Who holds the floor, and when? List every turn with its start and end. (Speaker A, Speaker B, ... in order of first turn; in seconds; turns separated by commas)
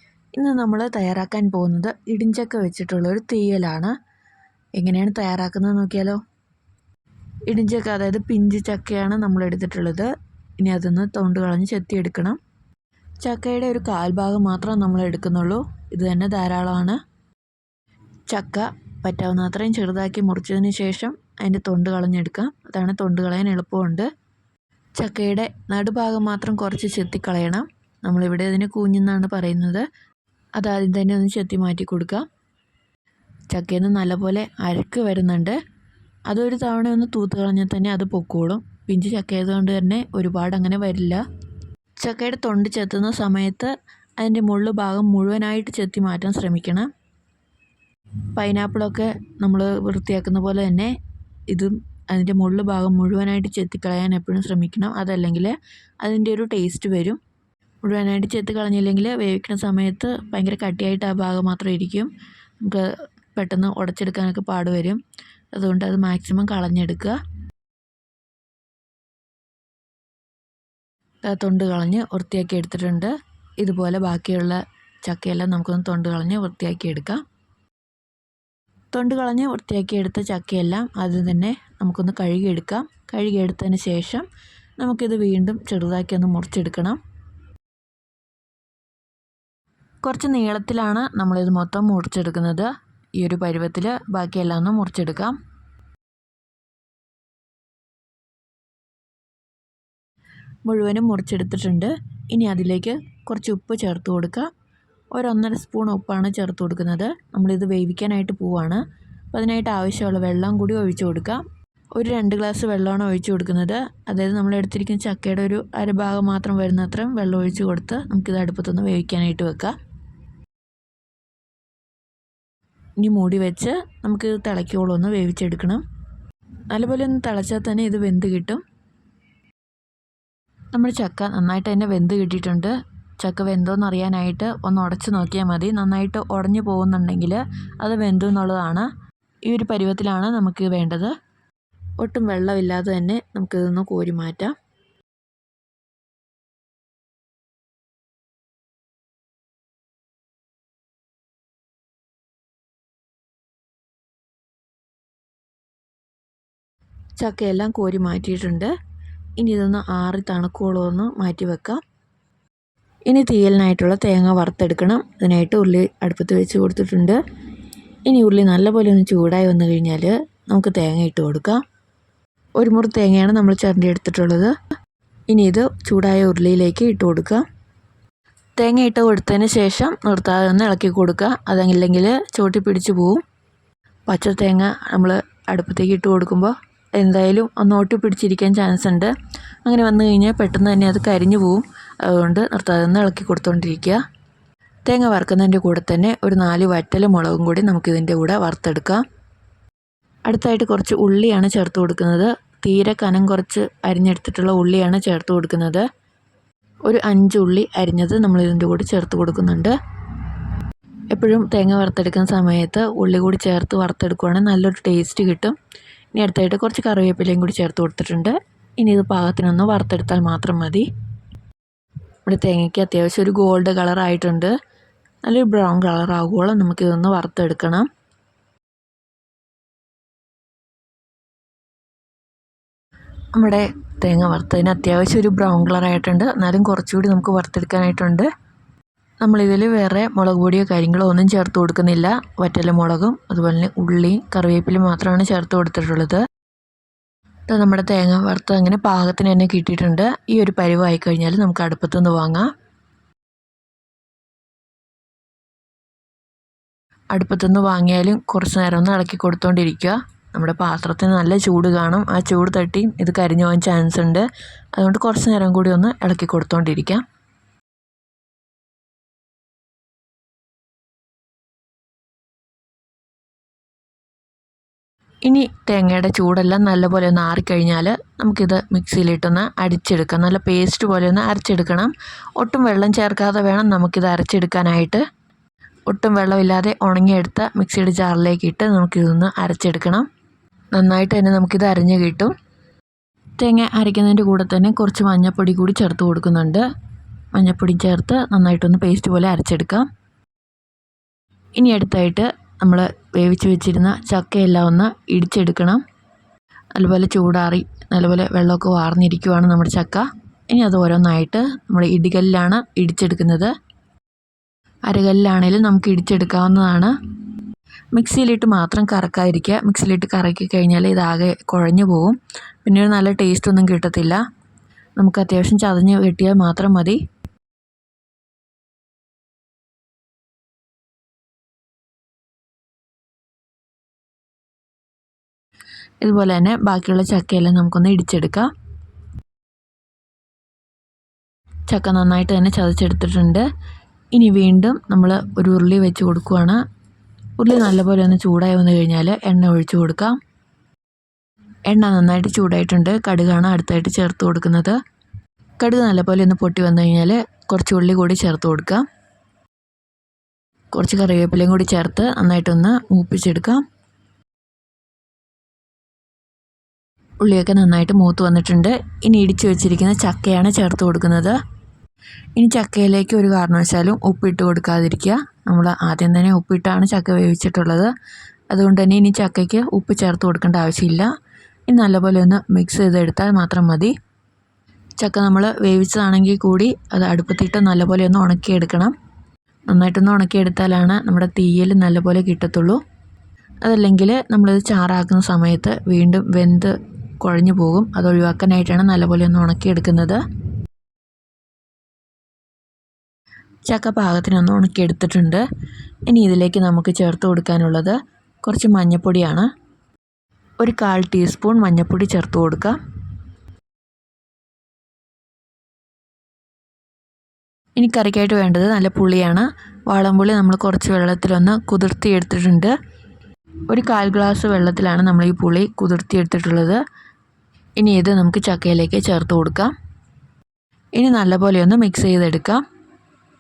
Speaker A: 0.3-3.9, Speaker A: 4.8-6.2, Speaker A: 7.5-12.4, Speaker A: 13.2-17.0, Speaker A: 18.3-24.1, Speaker A: 25.0-29.9, Speaker A: 30.6-32.3, Speaker A: 33.5-35.6, Speaker A: 36.3-41.2, Speaker A: 42.0-46.9, Speaker A: 48.4-51.0, Speaker A: 51.5-57.2, Speaker A: 57.8-62.1, Speaker A: 62.6-65.0, Speaker A: 65.5-67.2, Speaker A: 71.2-77.2, Speaker A: 78.9-84.3, Speaker A: 84.8-87.0, Speaker A: 90.0-95.4, Speaker A: 100.7-104.5, Speaker A: 105.1-108.8, Speaker A: 109.3-111.5, Speaker A: 112.0-119.8, Speaker A: 123.0-125.8, Speaker A: 126.7-128.6, Speaker A: 130.7-138.9, Speaker A: 139.5-141.2, Speaker A: 142.0-144.6, Speaker A: 157.2-158.7, Speaker A: 159.4-161.8, Speaker A: 163.1-167.2, Speaker A: 168.1-171.6, Speaker A: 172.6-174.6, Speaker A: 175.3-177.4, Speaker A: 178.6-183.2, Speaker A: 184.1-189.1, Speaker A: 189.7-194.0, Speaker A: 194.9-199.0, Speaker A: 200.3-205.8, Speaker A: 206.9-209.8, Speaker A: 211.1-215.6, Speaker A: 216.2-220.9, Speaker A: 222.3-224.6, Speaker A: 225.2-227.9, Speaker A: 233.3-238.3, Speaker A: 239.2-246.2, Speaker A: 247.5-252.5, Speaker A: 257.1-267.1, Speaker A: 275.2-285.0, Speaker A: 285.9-290.1, Speaker A: 290.7-292.3, Speaker A: 293.4-296.6, Speaker A: 297.3-299.9, Speaker A: 301.6-305.8, Speaker A: 306.8-313.5, Speaker A: 314.9-316.9, Speaker A: 317.9-324.2, Speaker A: 325.0-327.0, Speaker A: 336.0-338.5, Speaker A: 341.7-343.4, Speaker A: 344.1-346.6, Speaker A: 347.4-350.2, Speaker A: 351.7-354.8, Speaker A: 355.6-358.9, Speaker A: 360.7-363.6, Speaker A: 367.2-371.4, Speaker A: 372.4-377.9, Speaker A: 378.5-381.1, Speaker A: 381.7-383.9, Speaker A: 385.0-388.9, Speaker A: 389.7-392.8, Speaker A: 393.6-400.2, Speaker A: 403.7-405.4, Speaker A: 406.1-409.5, Speaker A: 410.6-412.8, Speaker A: 417.8-422.7, Speaker A: 423.7-426.8, Speaker A: 427.8-429.7, Speaker A: 431.0-432.6